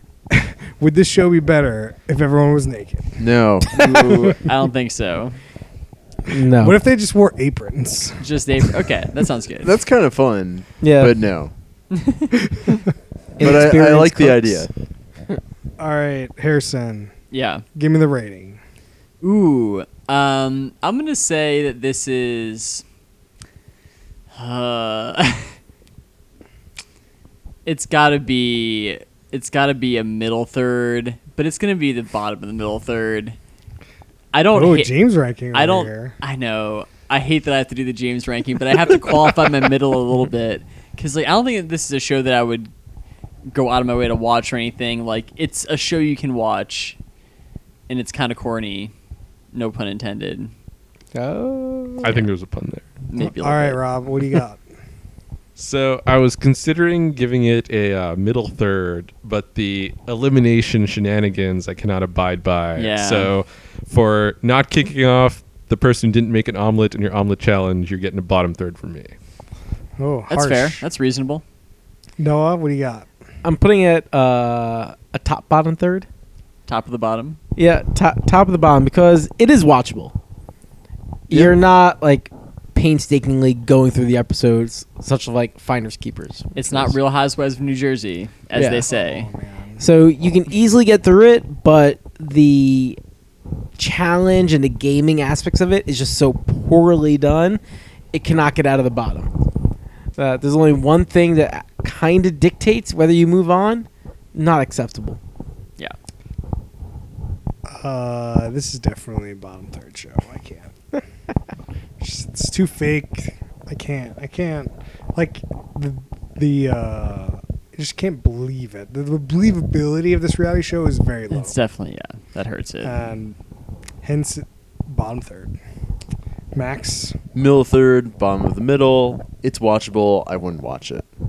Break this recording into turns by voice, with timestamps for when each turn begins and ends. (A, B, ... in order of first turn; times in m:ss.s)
0:00.3-0:03.2 A
0:03.2-0:04.4 B
0:03.7-0:05.4 C
0:06.3-0:06.8 D
0:06.6-0:08.2 A
0:08.2-0:09.7 C
0:09.6-0:11.5 B
0:10.8-0:11.2 D
0:11.9-0:12.8 C
0:13.4-0:14.7 D
0:13.4-0:14.7 B
0:15.8-0:17.1 A
0:17.3-0:17.6 C
0:17.8-0:18.6 A
0:19.2-0:22.8 C
0:24.3-0:25.5 C
0:27.7-0:33.4 C
0:34.3-0:34.9 C
0:34.5-0:36.2 A
0:35.5-0:42.7 C
0:43.5-0:47.0 C
0:47.9-0:48.9 C
0:49.5-0:50.5 C
0:51.1-0:52.1 D
0:52.0-0:53.0 E
0:53.1-0:53.8 C
0:53.2-0:54.6 A
0:55.6-1:09.1 E
1:02.8-1:03.3 C
1:10.0-1:10.8 A
1:10.3-1:11.4 C
1:12.2-1:13.1 A
1:13.4-1:16.1 D
1:16.7-1:17.4 C
1:17.6-1:20.1 D
1:21.3-1:27.0 D
1:26.6-1:29.3 C
1:28.5-1:28.9 D
1:28.9-1:29.8 A
1:29.8-1:33.0 D
1:33.8-1:37.6 D
1:38.1-1:39.3 D
1:40.2-1:45.2 D
1:47.7-1:50.8 A
1:52.0-2:01.6 A
2:01.3-2:03.1 C
2:02.8-2:03.4 A
2:04.0-2:05.6 A
2:06.5-2:07.2 A
2:07.4-2:11.1 B